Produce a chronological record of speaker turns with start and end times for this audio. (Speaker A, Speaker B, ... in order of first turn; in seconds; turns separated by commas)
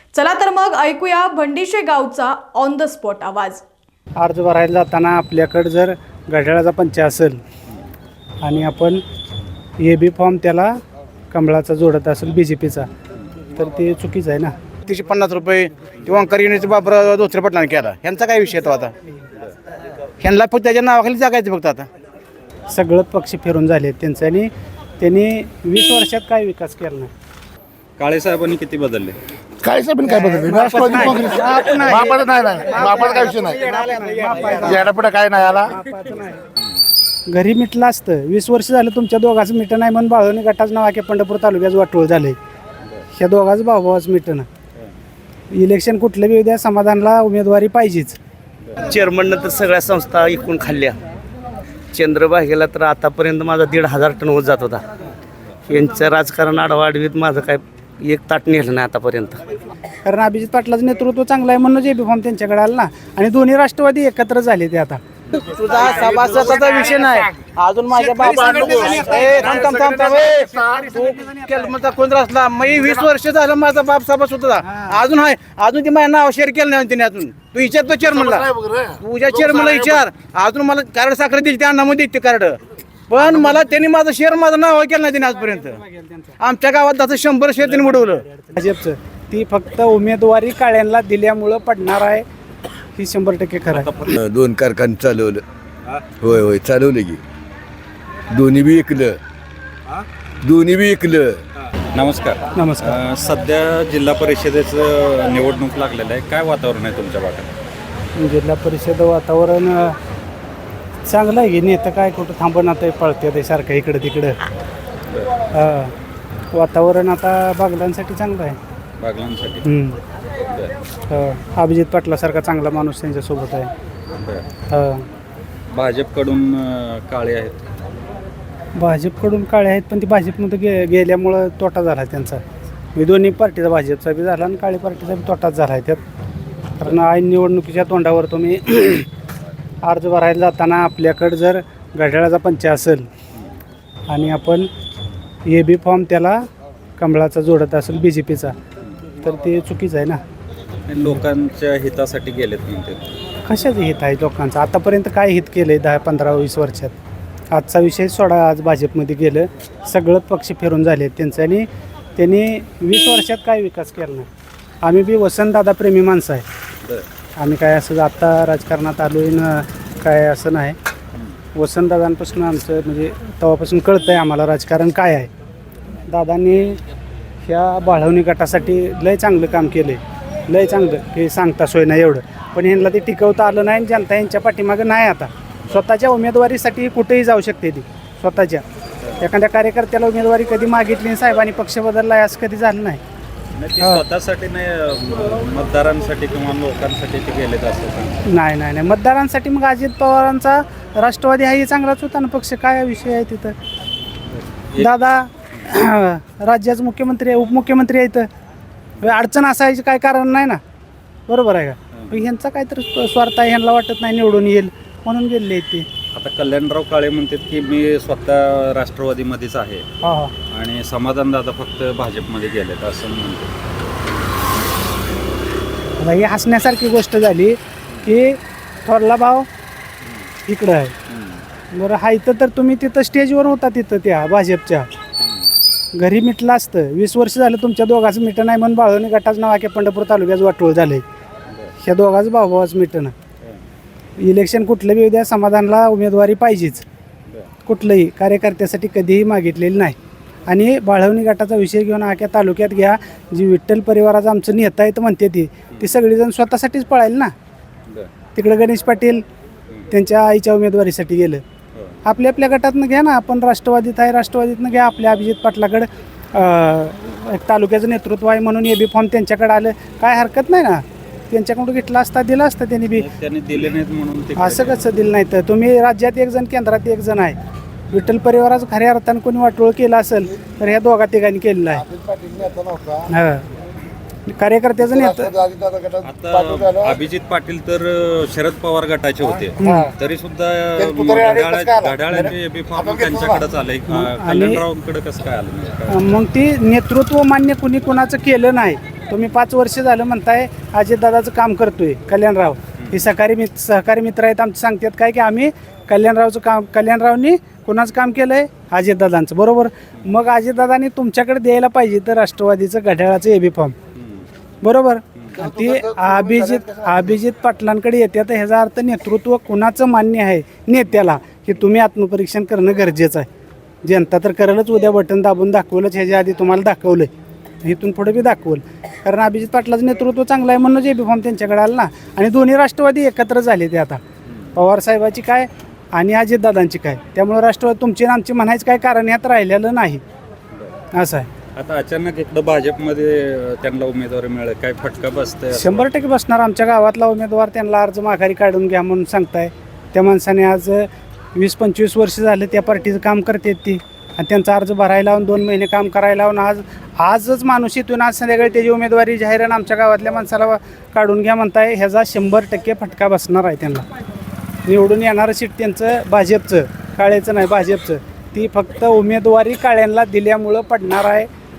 Speaker A: 0.1-3.6, Speaker B: 4.2-7.4, Speaker B: 8.4-9.0, Speaker B: 9.8-10.7, Speaker B: 11.3-12.9, Speaker B: 13.6-14.5, Speaker C: 14.9-18.9, Speaker C: 20.2-21.9, Speaker B: 22.7-27.1, Speaker D: 28.0-29.2, Speaker E: 29.6-33.7, Speaker B: 30.1-36.4, Speaker C: 33.8-34.6, Speaker E: 34.6-35.8, Speaker B: 37.3-42.4, Speaker B: 43.1-44.5, Speaker B: 45.5-48.2, Speaker F: 48.8-51.0, Speaker F: 51.9-54.8, Speaker F: 55.7-59.4, Speaker B: 60.0-65.0, Speaker C: 65.3-70.3, Speaker E: 65.7-67.2, Speaker E: 68.2-70.9, Speaker B: 68.2-71.7, Speaker C: 70.9-78.5, Speaker B: 74.7-75.0, Speaker E: 78.1-80.0, Speaker C: 79.0-82.6, Speaker C: 83.1-85.8, Speaker B: 83.2-83.5, Speaker B: 85.2-86.4, Speaker C: 86.4-88.2, Speaker B: 87.7-92.2, Speaker B: 93.0-94.1, Speaker D: 93.7-94.2, Speaker G: 94.2-95.4, Speaker G: 96.2-97.2, Speaker G: 98.3-99.2, Speaker G: 100.4-101.4, Speaker D: 102.0-107.5, Speaker B: 102.5-103.0, Speaker B: 108.2-110.0, Speaker B: 111.1-114.4, Speaker B: 115.5-115.9, Speaker B: 116.5-118.6, Speaker D: 119.0-119.6, Speaker B: 119.6-120.0, Speaker B: 121.1-123.7, Speaker B: 124.7-125.0, Speaker D: 125.7-127.6, Speaker B: 128.8-132.4, Speaker B: 132.9-136.0, Speaker B: 136.8-139.1, Speaker B: 139.8-143.1, Speaker B: 144.1-144.7, Speaker B: 145.5-146.4, Speaker B: 147.0-148.6, Speaker B: 149.2-150.2, Speaker D: 150.9-153.1, Speaker B: 153.4-156.9, Speaker B: 157.5-164.3, Speaker B: 164.8-166.4, Speaker B: 167.4-170.8, Speaker B: 171.6-175.3, Speaker B: 176.1-176.8, Speaker B: 177.4-188.6, Speaker B: 189.2-193.0, Speaker D: 193.6-198.2, Speaker B: 198.3-203.6, Speaker B: 204.8-208.3, Speaker B: 209.0-210.6, Speaker B: 211.3-215.9, Speaker D: 216.1-219.8, Speaker B: 220.0-220.3, Speaker D: 220.5-223.5, Speaker B: 226.0-229.5, Speaker B: 230.5-230.9, Speaker D: 231.1-231.4, Speaker B: 231.7-234.9, Speaker D: 235.2-235.5, Speaker B: 235.9-241.0, Speaker B: 241.8-243.1, Speaker B: 244.2-246.8, Speaker B: 247.7-257.3, Speaker B: 258.4-259.2, Speaker B: 259.9-261.4, Speaker B: 262.1-273.1, Speaker D: 273.0-274.8, Speaker B: 274.4-277.4, Speaker B: 277.9-281.9, Speaker E: 281.8-283.1, Speaker B: 283.1-283.4, Speaker B: 284.3-285.3, Speaker E: 284.9-287.0, Speaker D: 286.1-296.0, Speaker E: 289.3-289.9, Speaker B: 289.6-289.9, Speaker E: 290.8-293.4, Speaker B: 293.9-294.6, Speaker B: 295.9-313.8, Speaker D: 314.0-314.3, Speaker B: 314.6-323.3, Speaker E: 315.4-317.0, Speaker B: 323.8-327.1, Speaker B: 327.6-334.0, Speaker B: 334.6-340.0, Speaker B: 341.0-341.3, Speaker D: 341.6-345.9, Speaker B: 345.5-363.9, Speaker B: 364.7-371.3